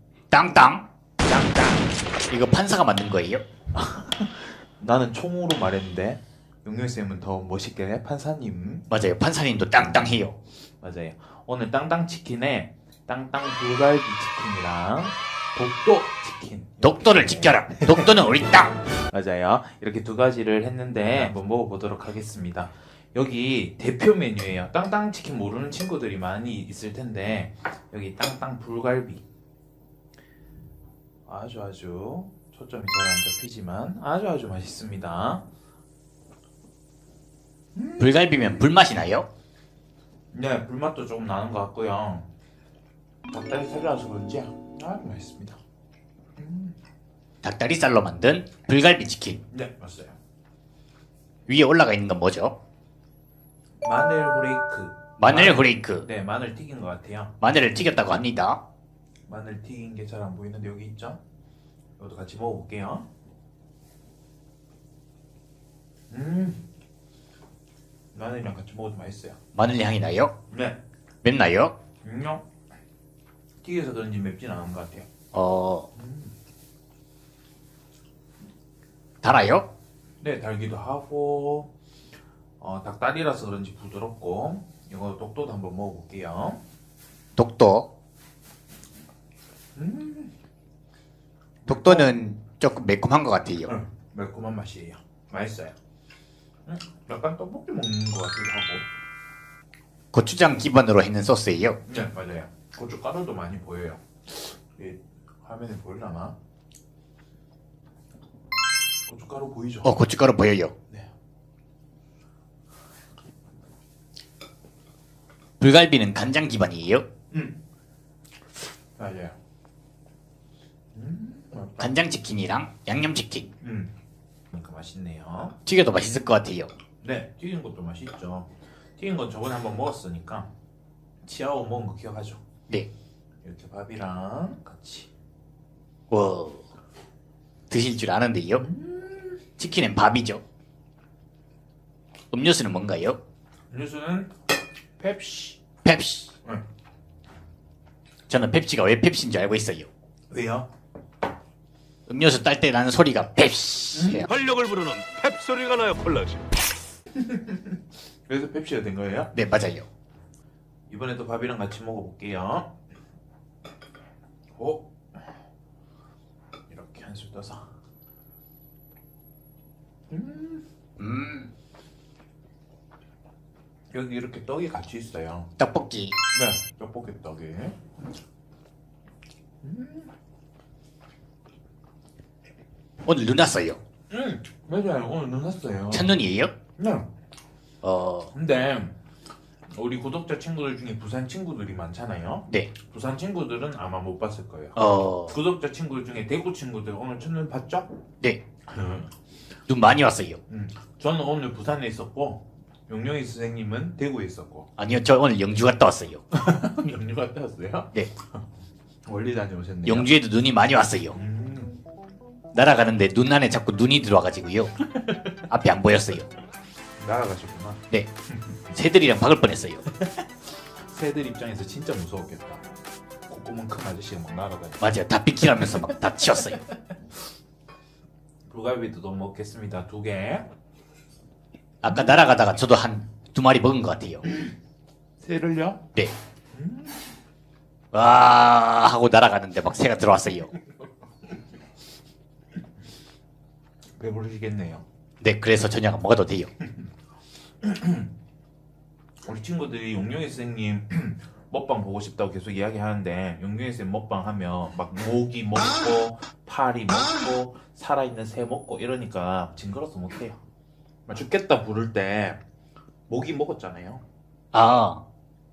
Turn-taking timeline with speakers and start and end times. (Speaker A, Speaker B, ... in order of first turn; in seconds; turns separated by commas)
Speaker A: 0.3-0.9, Speaker B: 1.2-1.9, Speaker A: 2.3-3.4, Speaker B: 3.7-8.8, Speaker A: 8.9-10.3, Speaker B: 10.8-18.2, Speaker A: 16.8-18.7, Speaker B: 18.9-29.2, Speaker B: 31.2-35.5, Speaker B: 37.7-38.1, Speaker A: 38.0-39.3, Speaker B: 40.3-42.3, Speaker B: 43.3-45.6, Speaker B: 46.4-46.8, Speaker A: 47.4-49.4, Speaker B: 49.5-50.1, Speaker A: 51.5-52.6, Speaker B: 53.8-57.3, Speaker A: 55.2-56.1, Speaker A: 57.4-58.6, Speaker B: 59.3-61.2, Speaker B: 62.0-63.0, Speaker B: 66.1-66.6, Speaker B: 68.1-69.4, Speaker A: 69.5-70.3, Speaker B: 70.5-70.8, Speaker A: 71.2-71.7, Speaker B: 72.0-72.4, Speaker B: 73.6-75.1, Speaker A: 75.3-75.9, Speaker B: 75.9-76.3, Speaker A: 79.2-79.7, Speaker B: 80.2-81.7, Speaker B: 82.6-86.6, Speaker A: 87.3-87.9, Speaker B: 89.7-90.3, Speaker B: 91.7-92.1, Speaker A: 91.7-93.7, Speaker B: 93.7-95.7, Speaker B: 96.7-98.8, Speaker A: 100.1-101.8, Speaker B: 101.8-106.4, Speaker B: 109.1-110.0, Speaker A: 109.8-110.7, Speaker A: 115.6-117.0, Speaker B: 117.3-117.6, Speaker B: 119.0-119.3, Speaker B: 120.9-121.9, Speaker A: 121.8-123.5, Speaker B: 123.6-123.9, Speaker B: 124.5-125.6, Speaker A: 125.7-126.7, Speaker B: 127.0-130.5, Speaker B: 131.2-132.4, Speaker B: 133.4-135.1, Speaker A: 136.1-136.7, Speaker A: 137.7-138.7, Speaker B: 138.5-139.4, Speaker A: 139.6-140.4, Speaker A: 142.3-143.2, Speaker B: 143.7-144.3, Speaker B: 145.0-145.6, Speaker A: 145.8-146.3, Speaker A: 148.3-149.9, Speaker B: 150.3-150.7, Speaker A: 152.1-154.3, Speaker B: 153.9-154.3, Speaker C: 154.3-156.4, Speaker B: 157.1-159.3, Speaker A: 159.3-159.9, Speaker B: 160.9-162.7, Speaker B: 164.6-164.9, Speaker B: 166.7-167.7, Speaker B: 170.1-170.6, Speaker A: 171.0-171.5, Speaker B: 173.9-175.5, Speaker A: 175.6-176.2, Speaker B: 176.3-177.8, Speaker B: 179.6-180.1, Speaker A: 183.0-183.8, Speaker B: 184.1-186.2, Speaker A: 185.9-186.5, Speaker B: 186.8-187.1, Speaker A: 187.8-188.3, Speaker B: 188.3-188.9, Speaker B: 189.7-197.9, Speaker A: 194.8-195.4, Speaker B: 198.7-199.1, Speaker A: 199.7-200.4, Speaker B: 200.5-204.7, Speaker A: 204.8-206.2, Speaker B: 206.3-207.9, Speaker B: 209.1-210.1, Speaker A: 209.8-211.1, Speaker B: 211.1-211.8, Speaker A: 212.5-214.7, Speaker B: 214.9-215.3, Speaker A: 215.5-216.3, Speaker B: 217.0-217.8, Speaker A: 218.7-219.8, Speaker B: 220.9-222.6, Speaker B: 223.3-224.9, Speaker A: 224.8-226.6, Speaker B: 228.4-230.5, Speaker A: 231.8-234.2, Speaker B: 235.2-235.8, Speaker B: 236.5-237.0, Speaker A: 237.9-240.5, Speaker B: 244.0-244.8, Speaker A: 245.2-246.5, Speaker B: 247.6-248.1, Speaker B: 249.2-260.4, Speaker B: 261.1-262.4, Speaker B: 263.1-264.0, Speaker A: 264.5-265.0